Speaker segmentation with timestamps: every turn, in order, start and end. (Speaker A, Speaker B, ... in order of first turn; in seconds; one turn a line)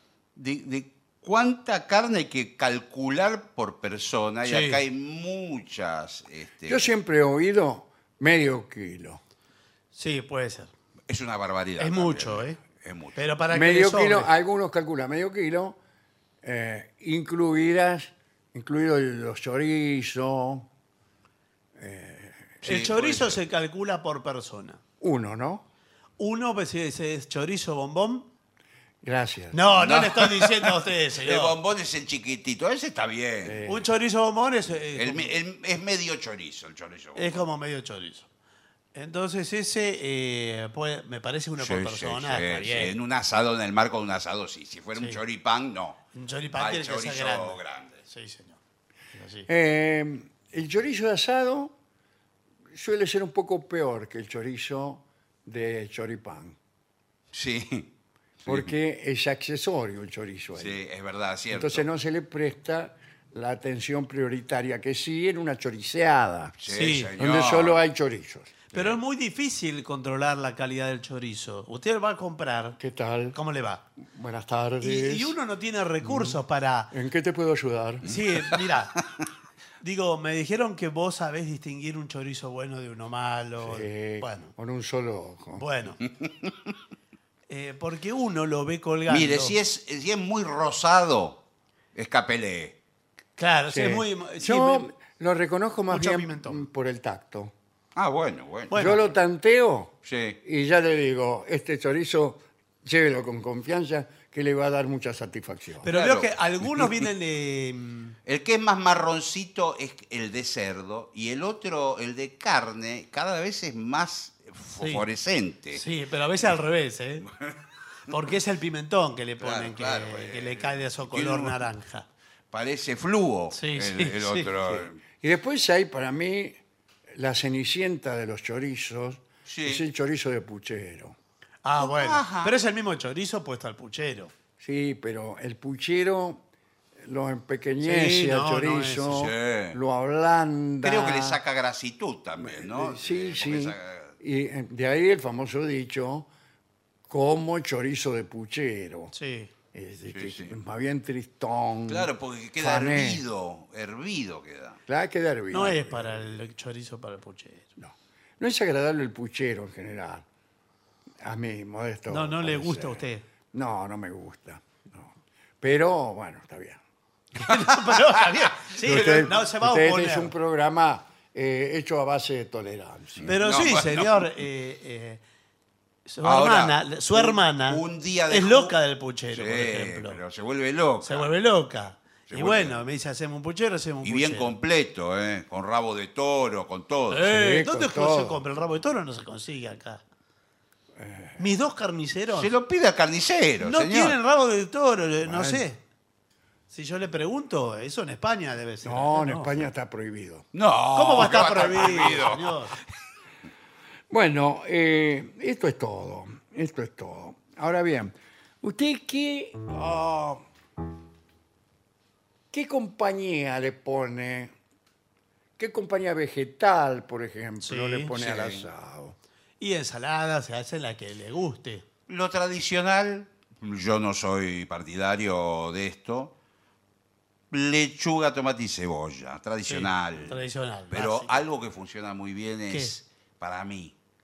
Speaker A: 0.3-6.9
Speaker B: 4.4-4.8
Speaker C: 6.7-9.2
Speaker B: 9.9-10.7
Speaker A: 11.1-13.2
Speaker B: 11.8-12.6
Speaker B: 13.1-14.3
Speaker C: 13.5-15.8
Speaker C: 16.4-20.7
Speaker C: 21.8-22.6
Speaker A: 22.6-23.4
Speaker B: 22.6-24.8
Speaker C: 25.0-25.6
Speaker B: 26.2-28.2
Speaker C: 29.0-29.6
Speaker B: 29.5-31.5
Speaker A: 29.7-33.6
Speaker C: 33.4-33.9
Speaker B: 33.6-35.3
Speaker A: 34.9-37.4
Speaker B: 37.1-38.3
Speaker B: 38.9-42.9
Speaker A: 41.6-46.0
Speaker B: 46.1-48.6
Speaker A: 46.5-48.0
Speaker B: 49.1-49.5
Speaker C: 49.5-51.7
Speaker C: 52.7-56.5
Speaker A: 57.3-57.9
Speaker A: 58.4-58.7
Speaker C: 58.5-60.8
Speaker A: 60.5-61.9
Speaker C: 61.5-66.5
Speaker A: 66.6-67.8
Speaker B: 66.7-67.1
Speaker C: 67.2-68.5
Speaker B: 68.7-72.8
Speaker A: 68.7-69.0
Speaker C: 72.8-73.4
Speaker B: 73.3-73.8
Speaker C: 74.0-75.3
Speaker B: 74.8-76.9
Speaker C: 76.0-76.4
Speaker C: 76.9-78.1
Speaker B: 78.0-79.0
Speaker A: 78.1-78.7
Speaker B: 79.8-84.5
Speaker C: 83.6-85.6
Speaker B: 85.6-86.0
Speaker A: 86.1-86.7
Speaker B: 87.5-89.5
Speaker A: 89.1-91.4
Speaker A: 91.9-92.8
Speaker B: 93.4-94.9
Speaker C: 93.7-97.5
Speaker B: 95.9-96.6
Speaker A: 97.9-99.0
Speaker B: 98.7-99.0
Speaker C: 98.7-105.9
Speaker A: 100.0-100.4
Speaker B: 105.8-108.2
Speaker A: 105.9-107.0
Speaker A: 108.2-115.8
Speaker B: 115.7-117.3
Speaker A: 117.2-117.6
Speaker B: 118.1-122.0
Speaker A: 119.4-121.7
Speaker A: 122.5-125.0
Speaker B: 123.5-124.5
Speaker C: 125.2-126.6
Speaker C: 127.1-131.2
Speaker A: 129.4-129.8
Speaker B: 131.6-134.3
Speaker A: 131.8-132.5
Speaker C: 134.6-136.4
Speaker C: 137.0-141.4
Speaker B: 137.8-139.2
Speaker A: 139.1-139.8
Speaker A: 140.8-144.1
Speaker C: 142.4-146.3
Speaker C: 147.1-149.1
Speaker B: 149.1-149.5
Speaker C: 149.7-153.2
Speaker A: 150.1-150.5
Speaker A: 151.9-154.8
Speaker C: 154.9-156.2
Speaker B: 155.5-157.7
Speaker C: 157.8-160.2
Speaker C: 161.2-166.8
Speaker B: 162.1-163.2
Speaker B: 167.3-170.3
Speaker A: 167.5-169.3
Speaker C: 168.8-173.3
Speaker A: 173.2-174.3
Speaker B: 173.2-175.2
Speaker B: 176.1-180.2
Speaker A: 176.2-178.8
Speaker A: 179.3-181.3
Speaker B: 181.0-184.5
Speaker A: 182.3-182.8
Speaker A: 184.0-187.3
Speaker B: 187.1-190.0
Speaker C: 187.2-188.4
Speaker C: 191.0-191.4
Speaker B: 191.4-192.5
Speaker A: 192.3-194.2
Speaker B: 193.6-195.8
Speaker C: 195.2-195.6
Speaker B: 196.7-199.6
Speaker C: 198.8-200.4
Speaker A: 200.5-202.6
Speaker B: 200.9-202.8
Speaker C: 204.1-210.4
Speaker C: 212.5-214.5
Speaker C: 215.6-219.2
Speaker B: 217.6-218.2
Speaker A: 218.2-218.7
Speaker B: 219.6-221.8
Speaker A: 222.1-226.3
Speaker A: 227.5-233.9
Speaker B: 229.7-231.4
Speaker B: 232.7-233.0